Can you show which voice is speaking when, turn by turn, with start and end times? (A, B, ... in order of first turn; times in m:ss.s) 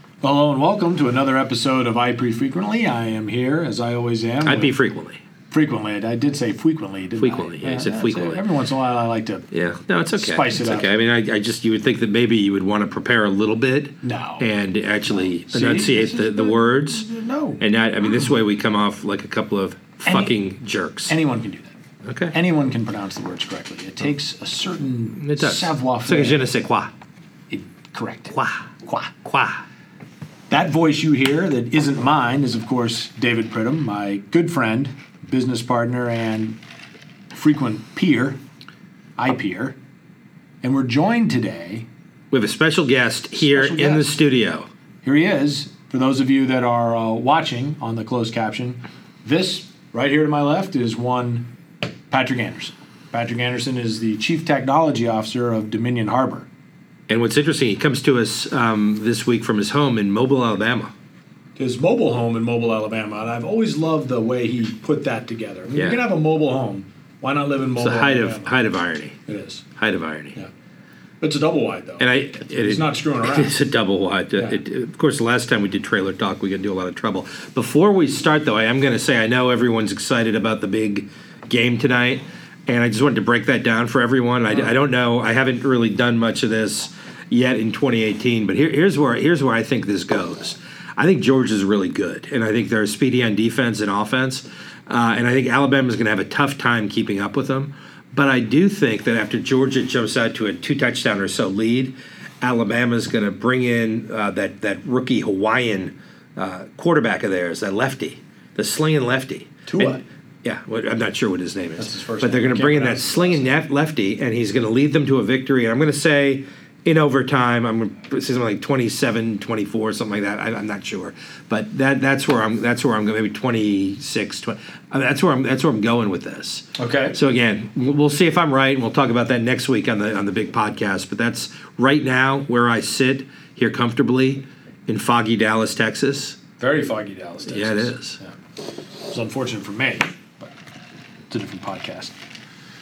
0:00.2-0:04.7 A
0:04.4-0:05.2 B
0:05.5-0:09.5 A
0:07.2-0:08.4 B
0:09.5-0:17.0 B
0:10.2-0:10.9 A
0:14.0-0:14.5 A
0:15.1-0:18.3 A
0:17.6-0:21.2 B
0:20.0-0:20.3 A
0:21.1-0:21.7 A
0:22.0-0:22.3 B
0:22.3-0:26.4 A
0:25.2-0:26.9 B
0:27.5-0:29.1 A
0:28.3-0:28.7 B
0:29.2-0:29.6 B
0:30.5-0:36.6 A
0:37.3-0:38.4 A
0:39.2-0:39.8 A
0:40.6-0:41.9 A
0:42.3-0:44.7 B
0:43.3-0:44.1 A
0:45.0-0:51.5 A
0:52.1-0:56.5 A
0:57.1-1:00.9 B
1:01.6-1:08.5 A
1:05.7-1:06.0 B
1:07.8-1:09.2 B
1:09.3-1:09.6 A
1:09.8-1:10.4 B
1:11.2-1:13.6 A
1:12.0-2:16.4 B
1:49.6-1:50.0 A
1:51.8-1:53.5 A
2:06.7-2:07.2 A
2:16.6-2:18.3 A
2:17.5-2:18.2 B
2:19.1-2:20.5 A
2:21.3-2:22.1 A